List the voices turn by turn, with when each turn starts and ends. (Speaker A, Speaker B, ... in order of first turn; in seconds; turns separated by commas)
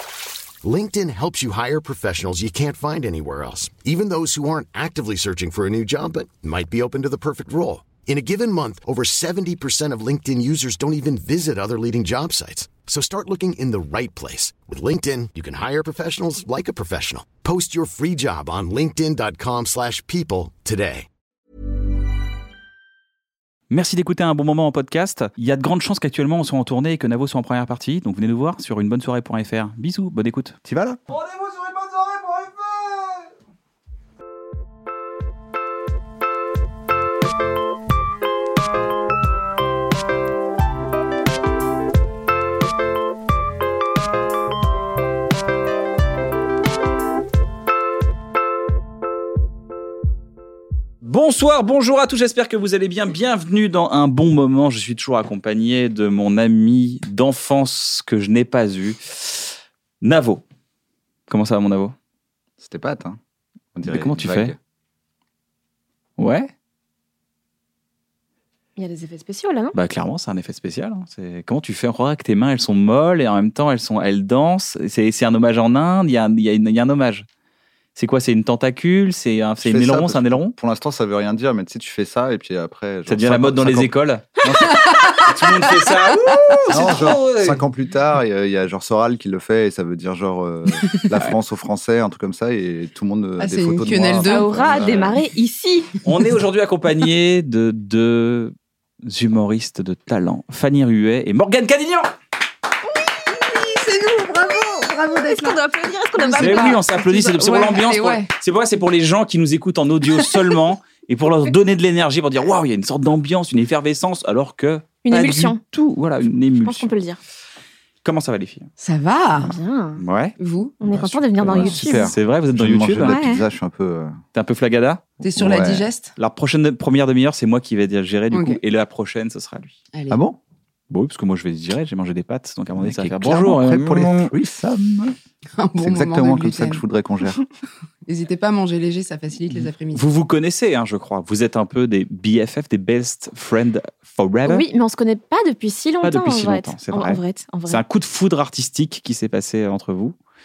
Speaker A: 0.6-21.1, Speaker B: 23.7-30.6, Speaker C: 30.6-33.0, Speaker B: 51.0-60.4, Speaker B: 61.3-61.9, Speaker C: 62.6-63.2, Speaker C: 63.7-64.6, Speaker B: 63.8-64.5, Speaker B: 66.2-66.5, Speaker D: 68.8-69.8, Speaker B: 69.7-77.2, Speaker B: 78.0-80.5, Speaker C: 79.6-84.8, Speaker B: 83.1-84.3, Speaker E: 84.6-87.1, Speaker B: 85.0-87.6, Speaker C: 86.7-95.1, Speaker E: 90.9-91.3, Speaker E: 93.4-94.7, Speaker D: 94.2-96.0, Speaker B: 94.7-95.1, Speaker B: 96.0-102.1, Speaker E: 103.2-105.6, Speaker D: 105.0-106.8, Speaker E: 106.1-108.3, Speaker B: 106.4-116.9, Speaker E: 110.2-110.5, Speaker D: 115.0-115.6, Speaker D: 116.6-117.2, Speaker B: 118.0-118.7, Speaker E: 118.8-119.6, Speaker D: 119.4-120.0, Speaker B: 120.0-120.3, Speaker E: 120.4-120.8, Speaker D: 120.8-122.1, Speaker C: 121.4-124.2, Speaker B: 121.4-123.1, Speaker D: 123.0-123.4, Speaker B: 124.3-125.0, Speaker E: 125.2-126.1, Speaker C: 125.2-125.9, Speaker B: 126.2-129.8, Speaker E: 128.3-128.6, Speaker E: 129.9-130.2, Speaker C: 130.1-130.4, Speaker B: 130.9-134.3, Speaker C: 132.8-135.2, Speaker E: 135.6-136.8, Speaker C: 135.8-137.4, Speaker E: 138.1-140.1, Speaker B: 139.9-144.6, Speaker D: 144.4-147.8, Speaker B: 146.0-150.1